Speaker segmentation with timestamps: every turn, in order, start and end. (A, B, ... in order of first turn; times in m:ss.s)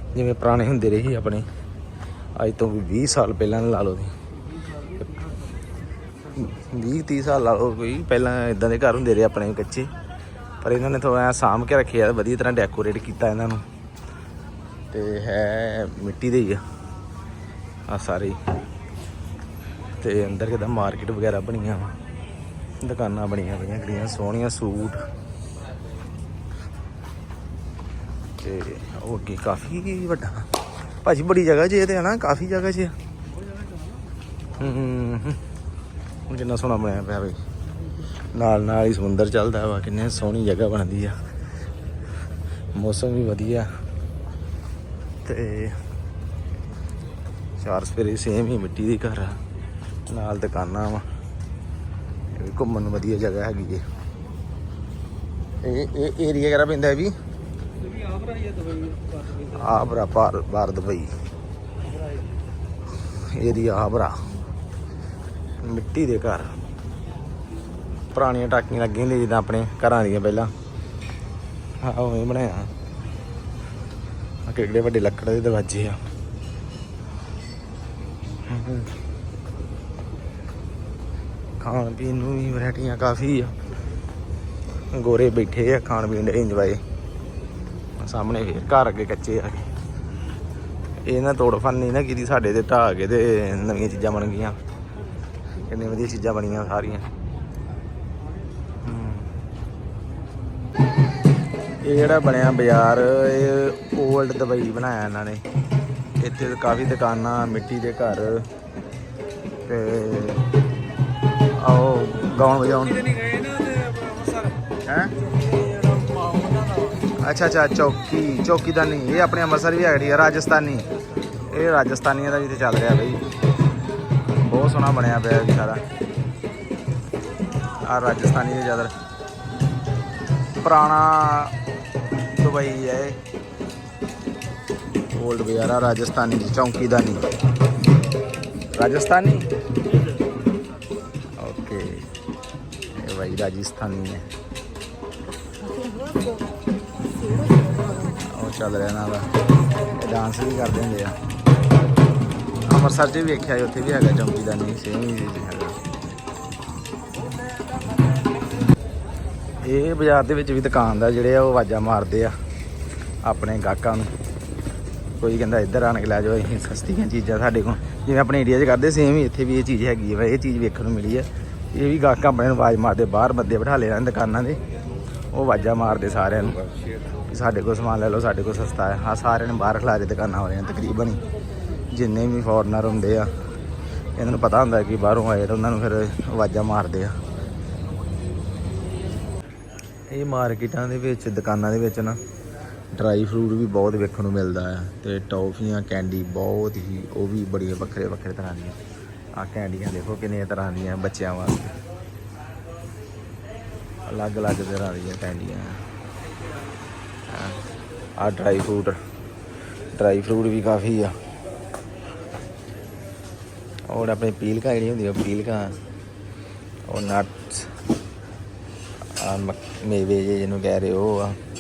0:00.1-0:01.5 A
0:02.4-0:04.2 A
0:06.3-0:09.9 A
0:10.6-0:13.6 A
0:14.9-0:16.6 A
0:17.9-0:18.4 A
0:20.0-0:22.0 A
0:22.8-0:25.0 A
0:28.4-0:30.5 A
0:31.0-0:33.0 A
0:34.6-0:35.4 A
0:36.3-0:37.4 A
0:38.3-0:41.2 A
0:42.7-0:43.7 A
0:45.2-0:45.8 A
0:47.6-0:49.4 A
0:50.1-0:51.1 A
0:52.3-0:53.8 A
0:55.6-0:57.2 A
0:57.9-0:59.5 B
0:59.4-1:01.1 A
1:01.9-1:02.2 B
1:03.2-1:04.2 A
1:05.6-1:06.6 A
1:08.1-1:10.5 A
1:11.8-1:12.7 A
1:14.5-1:16.0 A
1:18.5-1:18.9 A
1:21.6-1:23.6 A
1:24.9-1:26.8 A
1:28.0-1:29.7 A
1:31.0-1:34.6 A
1:35.7-1:37.1 A
1:38.8-1:39.3 A
1:41.8-1:45.4 A
1:46.2-1:48.5 A
1:49.7-1:50.5 A
1:51.5-1:53.2 A
1:53.2-1:54.5 B
1:54.8-1:55.2 A
1:55.5-1:56.9 B
1:57.1-2:00.9 A
2:01.5-2:03.2 A
2:04.4-2:05.8 A
2:07.8-2:08.9 A
2:10.6-2:11.6 A
2:12.3-2:13.2 A
2:15.1-2:17.3 A
2:18.7-2:19.5 A
2:21.4-2:22.1 A
2:23.0-2:24.3 A
2:28.1-2:31.2 A
2:32.7-2:35.8 A
2:39.6-2:42.4 A
2:43.2-2:44.1 A
2:45.2-2:54.6 A
2:55.3-2:56.7 A
2:57.2-3:01.2 A
3:01.9-3:03.3 A
3:04.2-3:07.2 A
3:10.1-3:12.2 A
3:12.9-3:18.8 A
3:19.4-3:21.8 A
3:24.1-3:25.8 A
3:27.3-3:27.6 A
3:28.2-3:29.0 A
3:29.9-3:31.2 A
3:33.9-3:35.8 A
3:36.9-3:37.8 A
3:39.2-3:41.4 A